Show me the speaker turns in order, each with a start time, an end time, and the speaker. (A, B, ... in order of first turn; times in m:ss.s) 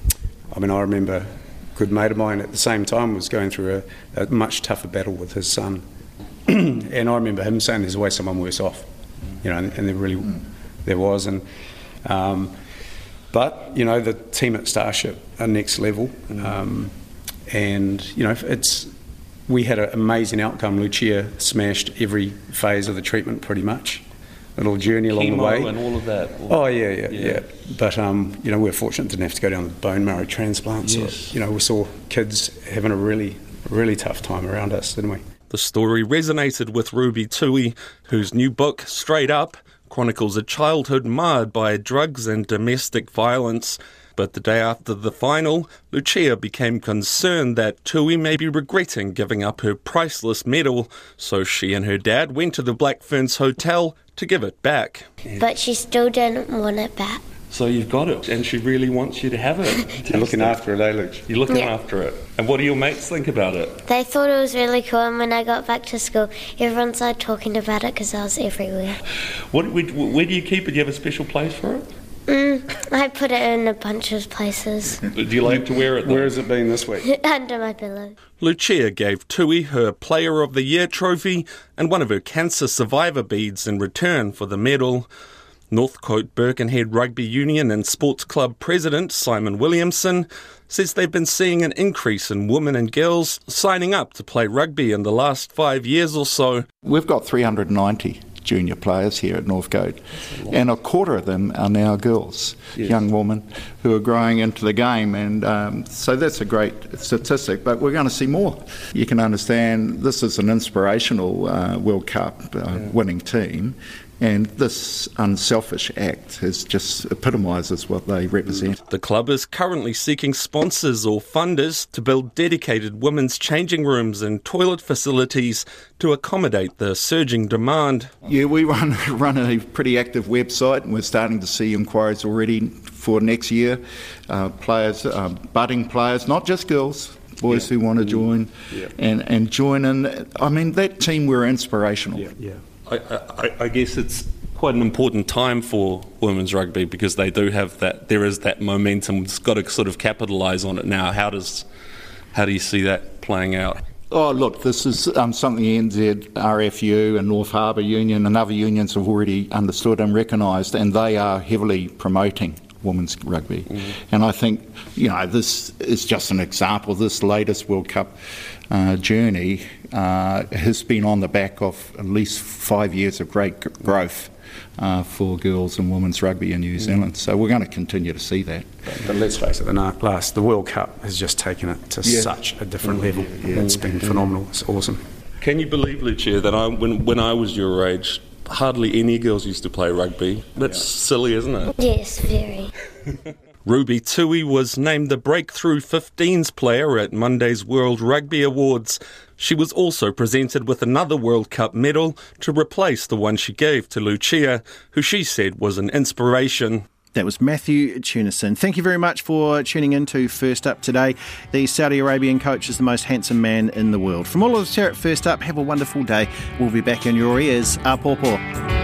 0:00.5-0:05.8 A
0:06.5-0:08.9 A
0:09.4-0:11.4 A
0:12.0-0:12.5 A
0:13.3-0:16.9 A
0:17.5-0:18.9 A
0:19.5-0:24.0 A
0:24.6-0:25.8 A
0:25.1-0:27.4 B
0:26.4-0:35.2 A
0:30.8-0:31.3 B
0:35.5-0:55.4 B
0:55.4-0:57.2 C
0:57.5-1:00.6 B
1:00.0-1:01.3 A
1:01.3-1:03.8 B
1:03.8-1:09.0 C
1:09.5-1:11.8 B
1:12.3-1:15.0 C
1:15.0-1:16.3 B
1:15.4-1:17.1 A
1:17.0-1:18.2 C
1:18.4-1:25.1 B
1:25.7-1:36.6 B
1:36.8-1:58.8 D
1:58.9-2:08.1 B
2:08.2-2:22.3 D
2:22.2-2:22.6 A
2:22.9-2:31.6 B
2:32.3-2:33.8 B
2:34.1-2:48.2 D
2:48.7-2:58.8 D
2:58.9-3:05.0 A
3:02.8-3:03.9 B
3:05.4-3:11.7 B
3:11.8-3:12.7 C
3:13.6-3:26.8 B
3:27.1-3:38.4 E